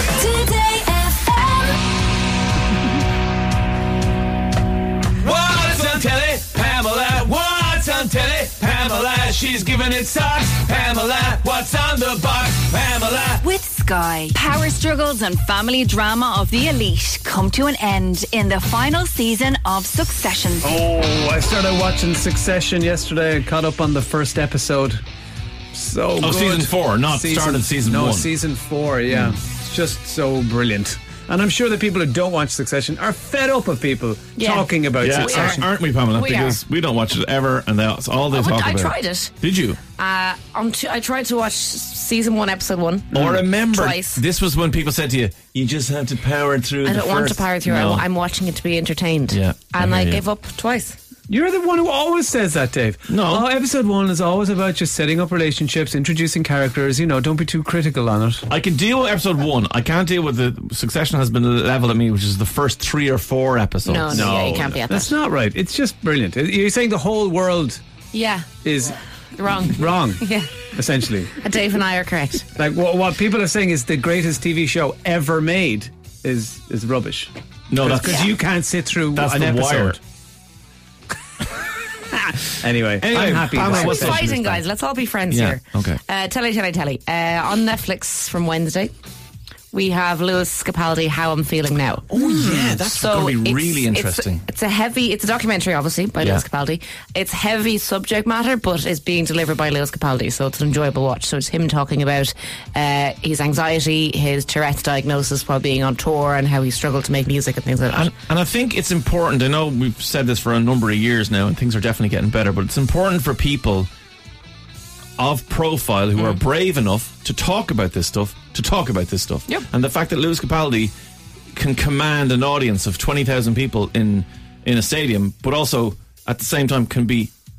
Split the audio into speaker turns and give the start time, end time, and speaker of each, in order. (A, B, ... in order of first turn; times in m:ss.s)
0:00.1-0:01.8 A
0:05.2-0:13.4 B
0:13.4-0:20.7 A
0:20.6-0:25.0 C
0:25.7-0:35.7 C
0:26.2-0:28.3 B
0:29.1-0:29.4 B
0:34.4-0:36.6 D
0:35.0-0:39.8 B
0:38.3-0:39.3 D
0:40.0-0:44.2 D
0:43.1-0:43.4 C
0:43.1-0:48.0 B
0:46.8-0:51.0 D
0:49.3-0:50.2 B
0:51.3-0:58.5 C
0:53.1-0:53.5 B
0:58.5-1:04.3 B
1:03.8-1:05.1 D
1:04.1-1:07.8 C
1:08.1-1:08.5 D
1:08.6-1:09.0 C
1:09.4-1:10.5 D
1:09.7-1:11.3 C
1:11.3-1:12.5 D
1:12.6-1:20.0 C
1:17.7-1:18.3 B
1:18.0-1:18.3 D
1:19.1-1:20.0 B
1:22.1-1:24.2 C
1:23.0-1:24.6 B
1:23.7-1:28.9 D
1:25.3-1:26.0 B
1:29.7-1:32.1 D
1:32.1-1:34.4 B
1:32.3-1:32.7 C
1:32.8-1:48.1 D
1:36.2-1:36.4 B
1:47.9-1:53.9 B
1:55.2-2:00.9 B
2:01.5-2:07.3 B